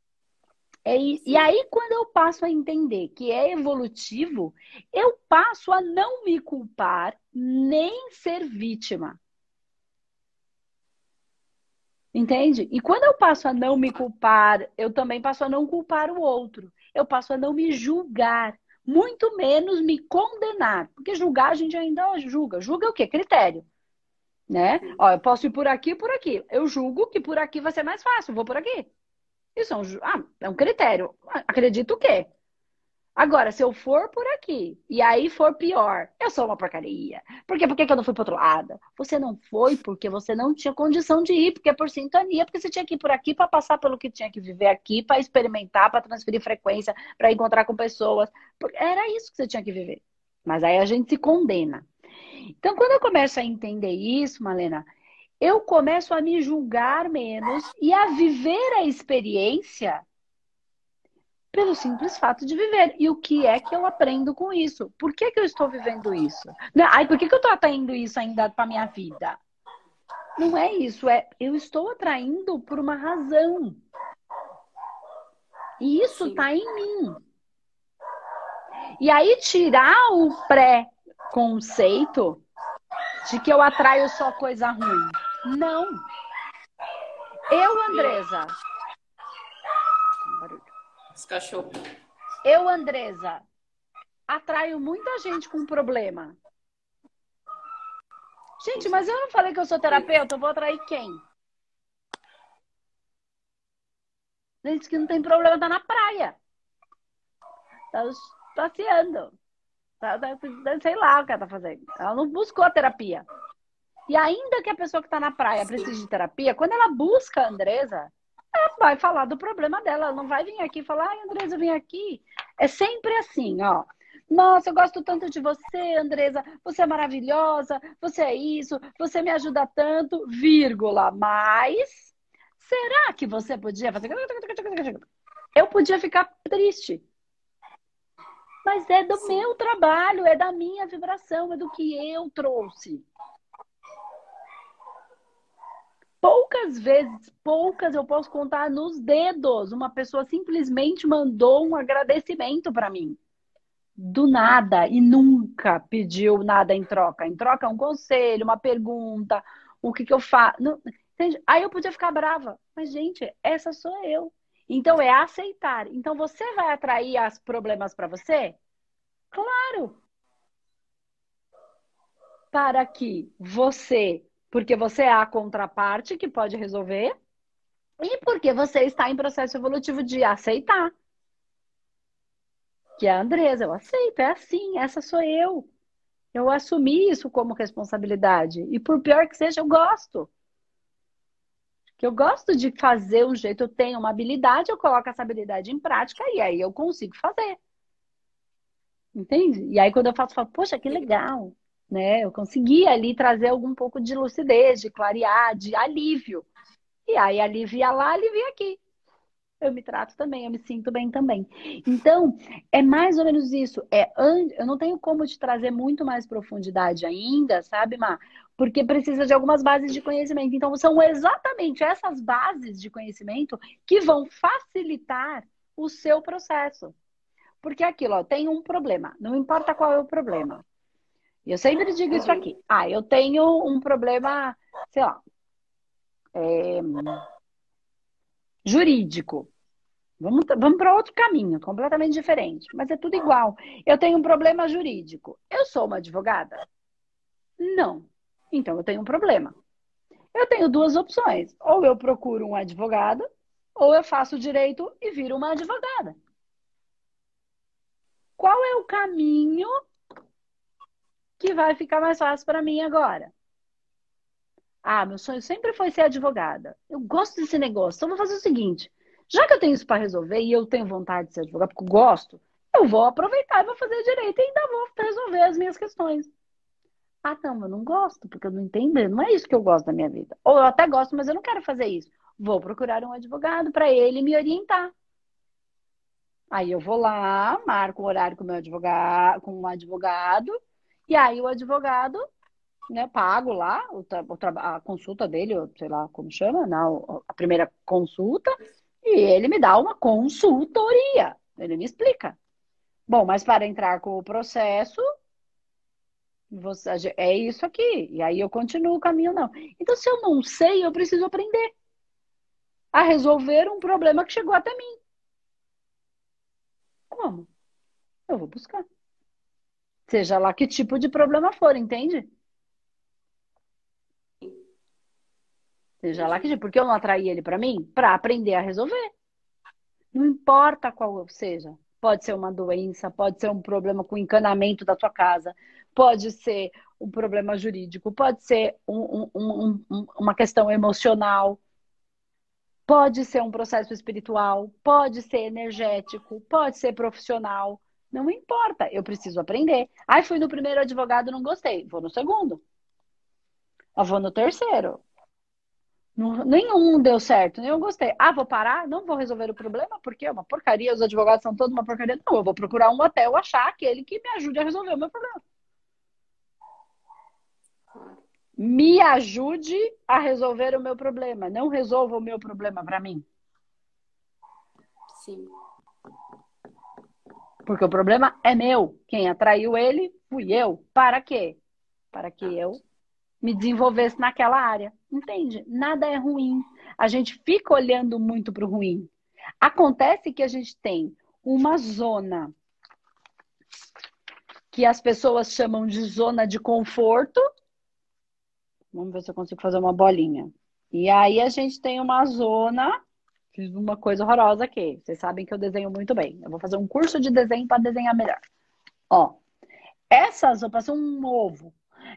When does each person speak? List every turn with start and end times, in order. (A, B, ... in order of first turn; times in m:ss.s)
0:00.9-0:09.2 A
0:01.2-0:01.5 B
0:12.1-0:23.7 A
0:24.5-0:28.9 A
0:29.6-0:32.3 A
0:33.2-0:51.9 A
0:52.6-0:54.9 A
0:55.4-1:00.0 A
1:01.5-1:09.4 A
1:10.4-1:13.8 A
1:15.8-1:17.2 A
1:16.2-1:16.4 B
1:19.0-1:22.4 A
1:23.2-1:26.0 A
1:27.5-1:28.5 A
1:27.9-1:28.2 B
1:30.3-1:30.7 A
1:31.2-1:31.7 B
1:32.4-1:33.4 A
1:34.3-1:36.4 A
1:38.6-1:41.2 A
1:38.8-1:39.0 B
1:44.6-1:46.4 A
1:47.9-1:49.3 A
1:50.0-1:53.3 A
1:54.1-2:15.0 A
2:15.6-2:17.0 A
2:18.6-2:23.0 A
2:19.1-2:19.5 B
2:26.2-2:33.2 A
2:34.0-2:48.6 A
2:49.3-2:50.0 A
2:52.5-2:57.1 A
2:58.0-3:00.9 A
3:03.0-3:05.7 A
3:06.3-3:10.3 A
3:12.0-3:17.6 A
3:19.2-3:26.5 A
3:27.1-3:28.8 A
3:29.6-3:47.0 A
3:47.6-3:50.6 A
3:51.5-3:55.2 A
3:52.1-3:52.4 B
3:56.4-3:57.2 A
3:58.6-3:59.5 A
4:00.2-4:06.6 A
4:07.6-4:09.5 A
4:10.3-4:13.2 A
4:13.8-4:16.2 A
4:18.4-4:19.7 A
4:21.4-4:23.3 A
4:24.8-4:36.3 A
4:37.2-4:44.9 A
4:46.5-4:50.5 A
4:51.1-4:52.2 A
4:52.9-4:58.5 A
4:59.0-5:02.4 A
5:03.1-5:05.0 A
5:06.5-5:11.7 A
5:12.9-5:15.0 A
5:17.1-5:17.5 A
5:18.3-5:18.8 A
5:20.1-5:22.3 A
5:26.0-5:29.1 A
5:26.2-5:26.4 B
5:30.1-5:41.6 A
5:42.9-5:52.6 A
5:54.0-5:55.0 A
5:56.2-6:05.4 A
6:07.9-6:08.2 B
6:08.6-6:13.2 A
6:15.1-6:15.5 B
6:17.7-6:21.6 A
6:22.1-6:22.8 A
6:23.4-6:29.1 A
6:29.6-6:32.5 A
6:34.7-6:37.4 A
6:38.9-6:43.0 A
6:43.5-6:48.4 A
6:49.1-6:49.4 A
6:50.1-6:51.8 A